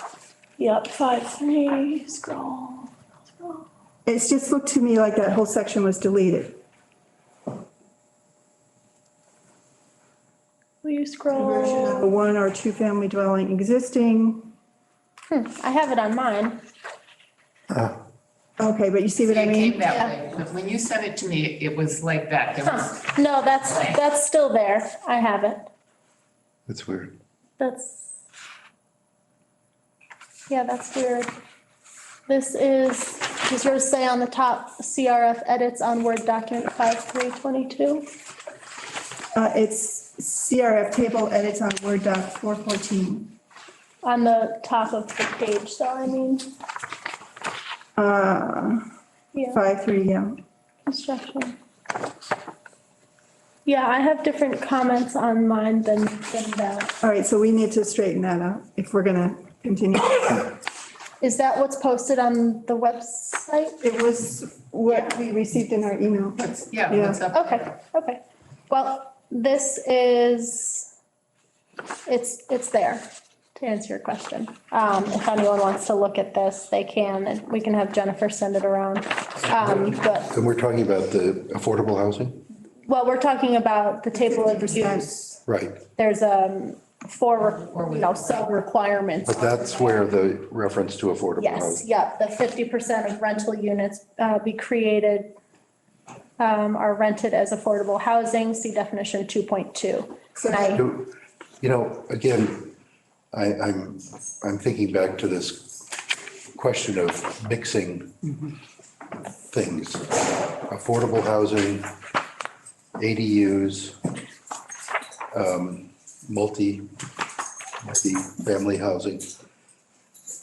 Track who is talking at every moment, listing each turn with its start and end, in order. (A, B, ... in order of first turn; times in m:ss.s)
0:00.6-0:03.6 A
0:04.1-0:06.6 B
0:10.8-0:12.1 A
0:11.3-0:14.5 B
0:15.3-0:16.6 A
0:17.7-0:18.0 C
0:18.6-0:19.9 B
0:19.2-0:23.0 D
0:19.9-0:20.2 A
0:22.6-0:25.7 A
0:26.7-0:27.2 C
0:27.6-0:28.0 A
0:30.5-0:31.3 A
0:32.3-0:38.1 A
0:39.4-0:43.4 B
0:44.0-0:46.5 A
0:48.0-0:48.8 B
0:49.3-0:49.6 A
0:49.5-0:50.3 B
0:50.9-0:51.6 A
0:53.7-0:57.0 A
0:57.0-1:00.6 B
1:01.2-1:03.8 A
1:03.8-1:07.2 B
1:06.4-1:07.7 D
1:07.3-1:10.9 A
1:12.1-1:20.3 A
1:19.7-1:22.4 C
1:22.9-1:25.4 A
1:24.3-1:25.0 B
1:25.5-1:25.8 C
1:26.0-1:30.1 A
1:27.7-1:28.5 D
1:29.3-1:31.8 C
1:31.4-1:35.3 A
1:36.4-1:40.8 A
1:40.4-1:40.8 B
1:40.7-1:42.8 C
1:43.3-1:45.8 C
1:46.5-1:48.2 C
1:49.5-1:52.0 C
1:53.0-1:54.0 C
1:55.3-1:56.9 C
1:57.8-1:59.3 C